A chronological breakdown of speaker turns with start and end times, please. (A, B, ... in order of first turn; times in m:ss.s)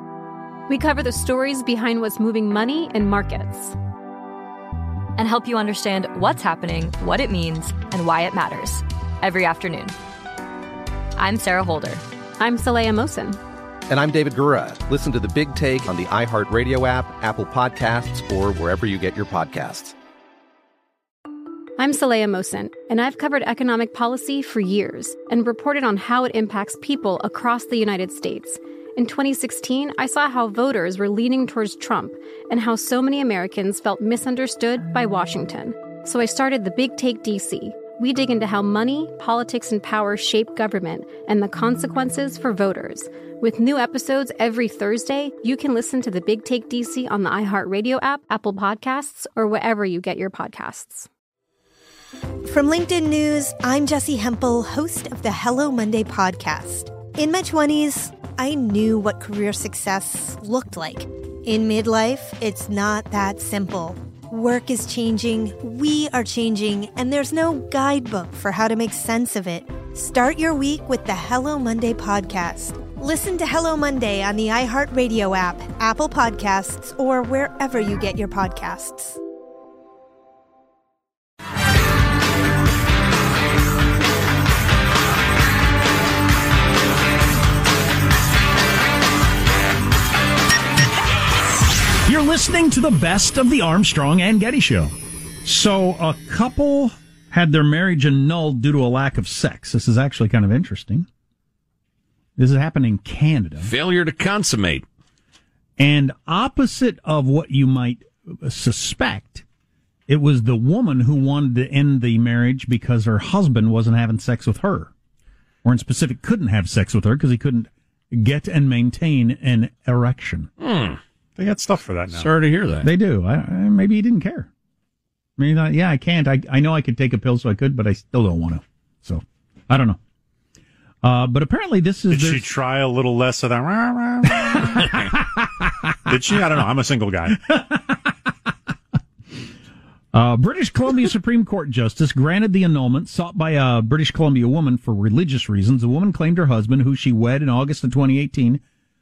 0:00.7-0:03.8 A
0:05.2-0:09.9 B
0:11.2-0:12.0 B
0:12.4-0:13.4 A
0:13.9-0:20.0 C
0:21.8-0:51.1 A
0:52.5-1:19.2 D
1:32.0-1:41.1 E
1:42.4-1:43.7 E
1:43.6-1:44.8 F
1:45.8-1:49.4 E
1:50.1-1:54.9 E
1:55.6-2:00.5 E
2:00.6-2:01.0 F
2:01.4-2:02.3 G
2:02.1-2:02.9 F
2:02.8-2:04.5 E
2:05.4-2:10.0 E
2:11.0-2:12.5 E
2:12.1-2:15.0 G
2:14.4-2:15.7 E
2:16.1-2:17.4 G
2:17.5-2:18.0 E
2:20.1-2:28.6 E